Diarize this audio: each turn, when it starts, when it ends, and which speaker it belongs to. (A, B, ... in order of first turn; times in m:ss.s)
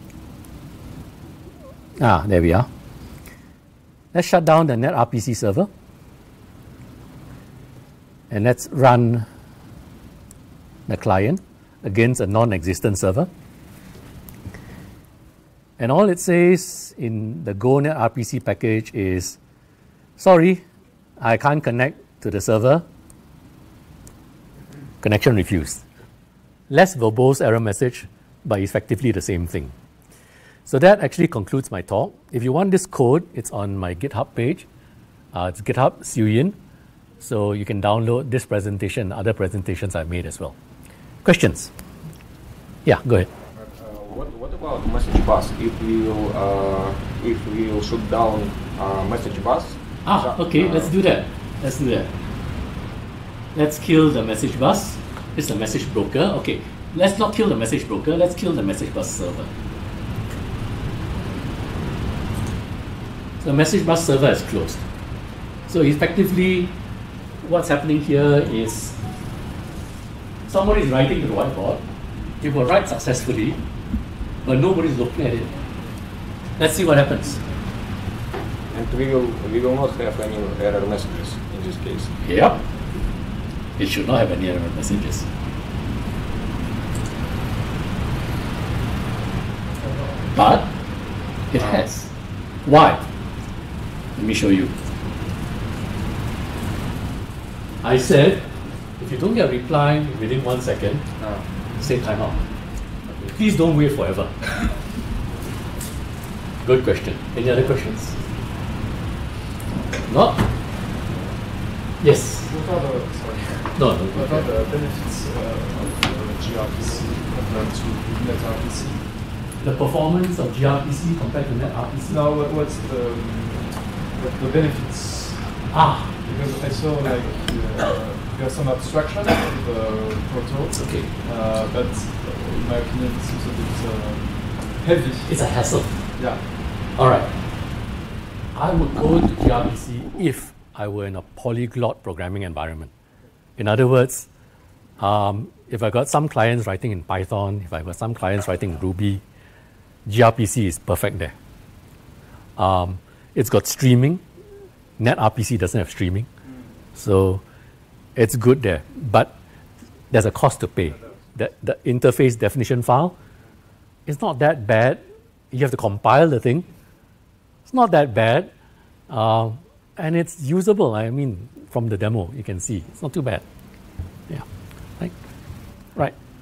0:02.0-0:02.7 A
0:04.1-0:05.7 A
0:08.3-0:09.3 A
0:10.9-0:13.3 A
0:15.8-0:19.4 A
0:20.2-0:20.6 A
0:21.2-0:22.8 A
0:25.0-0:25.8 A
0:26.7-0:29.7 A
0:30.7-0:34.7 A
0:35.3-0:36.6 A
0:37.2-0:40.6 A
0:41.2-0:41.7 A
0:42.8-0:43.3 A
0:43.5-0:50.9 B
0:50.0-0:52.1 A
0:53.6-0:59.5 A
1:03.4-1:04.8 A
1:05.7-1:06.8 A
1:07.4-1:09.0 A
1:10.5-1:11.8 A
1:12.4-1:13.6 A
1:14.4-1:15.5 A
1:16.6-1:17.4 A
1:18.7-1:22.2 B
1:22.2-1:22.6 A
1:23.8-1:25.3 A
1:30.3-1:30.7 A
1:31.5-1:32.1 A
1:32.6-1:33.0 A
1:34.2-1:34.7 A
1:37.8-1:38.4 A
1:39.0-1:41.2 A
1:41.2-1:41.4 B
1:41.8-1:42.4 A
1:43.2-1:44.4 A
1:46.6-1:48.2 A
1:50.1-1:50.4 A
1:52.0-1:52.5 A
1:52.4-1:59.0 C
1:53.8-1:54.4 A
1:59.6-2:02.2 A
2:02.1-2:05.7 C
2:05.7-2:06.1 A
2:06.2-2:15.4 C
2:10.7-2:11.1 A
2:15.3-2:16.0 A
2:16.2-2:16.4 C
2:17.0-2:17.3 A
2:18.5-2:22.9 A
2:23.6-2:24.3 A
2:25.0-2:29.2 A
2:30.1-2:31.4 A
2:32.6-2:34.2 A
2:35.0-2:36.3 A
2:37.0-2:37.4 A
2:38.2-2:39.3 A
2:40.1-2:43.2 A
2:44.1-2:46.7 A
2:47.7-2:48.5 A
2:49.1-2:53.4 A